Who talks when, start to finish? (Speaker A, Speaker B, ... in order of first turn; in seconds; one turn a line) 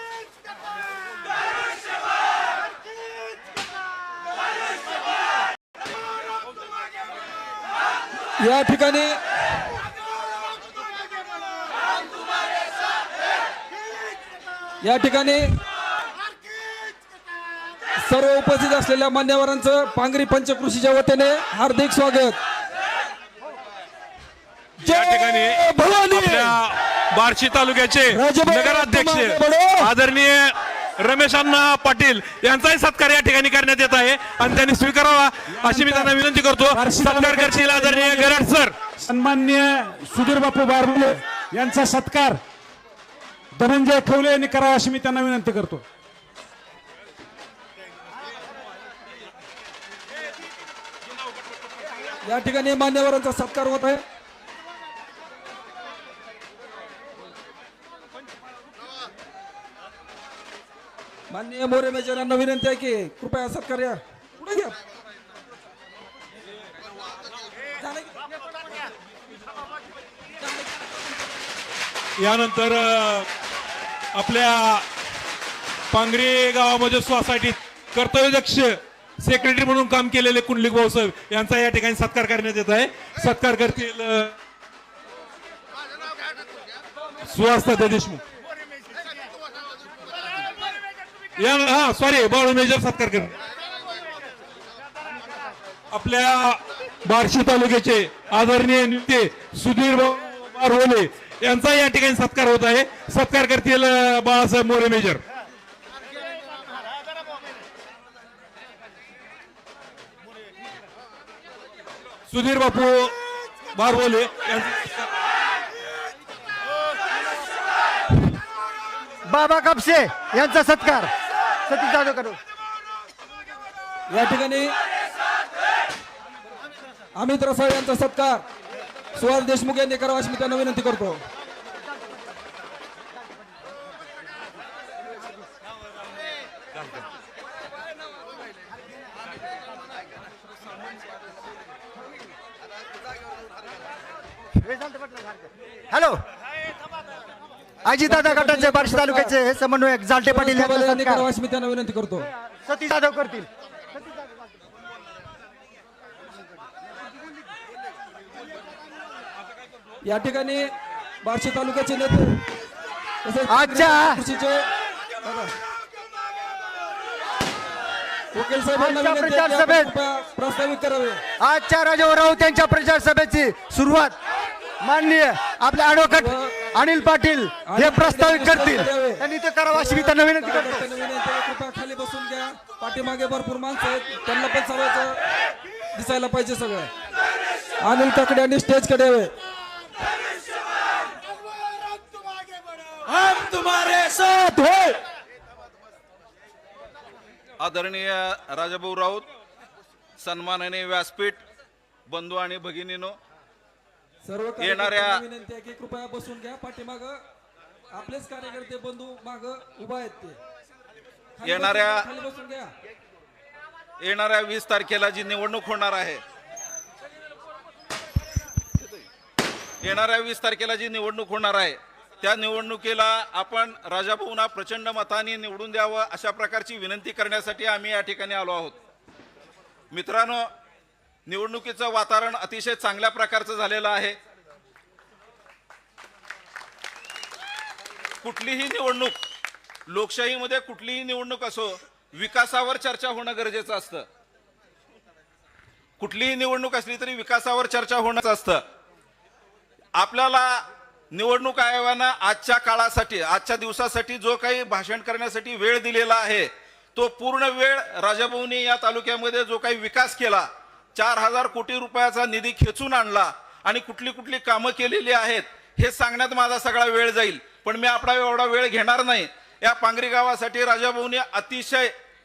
Speaker A: 8.4-9.2
Speaker A: 14.8-15.5
Speaker A: 18.0-22.4
Speaker A: 24.8-26.6
Speaker B: 24.8-38.8
Speaker A: 28.1-29.9
Speaker C: 35.5-36.2
Speaker C: 36.7-38.4
Speaker C: 39.0-42.4
Speaker C: 43.5-45.8
Speaker A: 52.2-54.0
Speaker A: 61.3-64.8
Speaker A: 67.8-68.1
Speaker B: 72.2-73.3
Speaker B: 74.1-74.9
Speaker B: 75.9-84.4
Speaker B: 87.3-88.2
Speaker B: 91.4-93.3
Speaker B: 95.9-105.2
Speaker B: 112.3-113.2
Speaker B: 113.7-115.1
Speaker D: 119.2-121.1
Speaker D: 121.7-122.4
Speaker A: 124.1-124.7
Speaker A: 127.2-128.4
Speaker A: 129.1-131.2
Speaker D: 144.5-146.2
Speaker D: 147.8-151.2
Speaker A: 148.0-149.4
Speaker A: 150.2-152.3
Speaker D: 152.6-153.5
Speaker A: 160.0-160.7
Speaker A: 161.2-162.4
Speaker A: 163.2-164.6
Speaker D: 163.5-164.2
Speaker A: 165.2-165.5
Speaker A: 168.3-171.2
Speaker D: 168.7-169.9
Speaker D: 171.4-174.2
Speaker D: 174.8-180.8
Speaker A: 176.0-176.6
Speaker A: 177.7-185.2
Speaker A: 185.9-186.9
Speaker A: 187.8-189.3
Speaker A: 193.1-195.0
Speaker E: 197.6-199.3
Speaker E: 200.2-201.4
Speaker E: 202.1-203.2
Speaker A: 204.2-207.2
Speaker E: 204.6-205.2
Speaker A: 207.9-210.4
Speaker A: 211.4-212.7
Speaker E: 211.4-212.1
Speaker E: 214.0-216.2
Speaker E: 218.7-219.0
Speaker E: 219.8-228.8
Speaker E: 229.9-230.5
Speaker E: 231.2-234.2
Speaker E: 238.2-239.2
Speaker E: 239.9-244.1
Speaker E: 246.0-248.6
Speaker E: 249.9-271.9